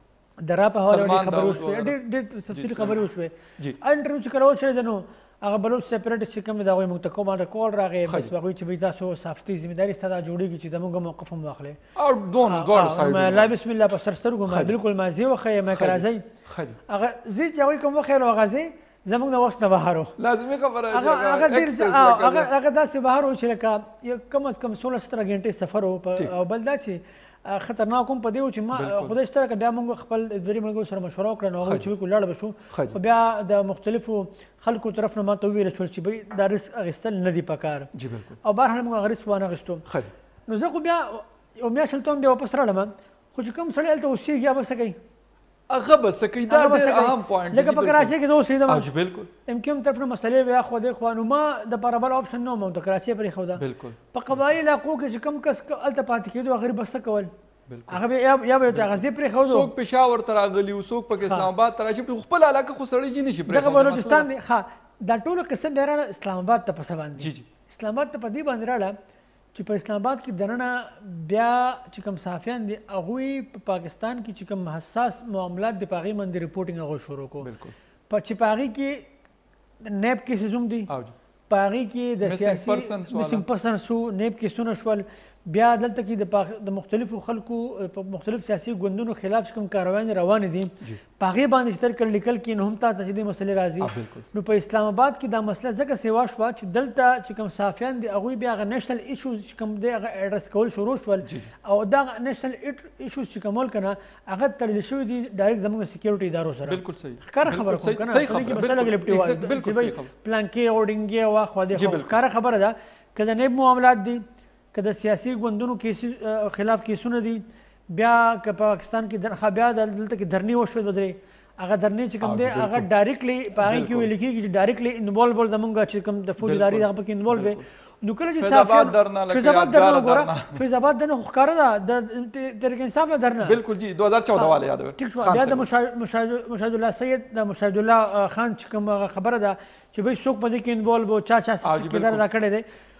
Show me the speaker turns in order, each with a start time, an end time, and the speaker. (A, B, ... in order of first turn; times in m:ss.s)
0:00.4-0:11.8 A
0:00.8-0:02.0 B
0:02.5-0:03.0 B
0:08.0-0:08.3 B
0:12.0-0:13.6 B
0:12.5-0:16.2 A
0:14.4-0:14.8 B
0:15.7-0:16.8 B
0:16.9-0:20.1 A
0:20.2-0:22.5 B
0:20.9-0:37.9 A
0:28.7-0:29.1 B
0:31.6-0:31.9 B
0:32.7-0:33.0 B
0:37.9-0:38.4 B
0:38.4-0:39.8 A
0:39.9-0:40.1 B
0:40.5-0:45.0 A
0:45.7-0:49.3 B
0:46.5-0:48.9 A
0:49.4-0:57.3 A
0:53.6-0:54.4 B
0:57.7-0:58.0 B
0:57.9-0:59.7 A
0:58.7-1:04.3 B
1:01.2-1:01.5 A
1:03.5-1:08.9 A
1:07.2-1:07.5 B
1:09.5-1:17.5 A
1:17.4-1:17.7 B
1:18.1-1:19.1 A
1:19.8-1:20.9 A
1:20.9-1:21.1 B
1:21.5-1:54.2 A
1:22.2-1:23.4 B
1:33.8-1:34.2 B
1:41.2-1:41.5 B
1:46.6-1:50.1 B
1:51.7-1:52.2 B
1:54.7-2:13.6 A
2:02.2-2:02.9 B
2:03.6-2:04.1 B
2:06.4-2:07.6 B
2:08.4-2:10.6 B
2:13.4-2:15.7 B
2:14.3-2:22.6 A
2:21.6-2:22.2 B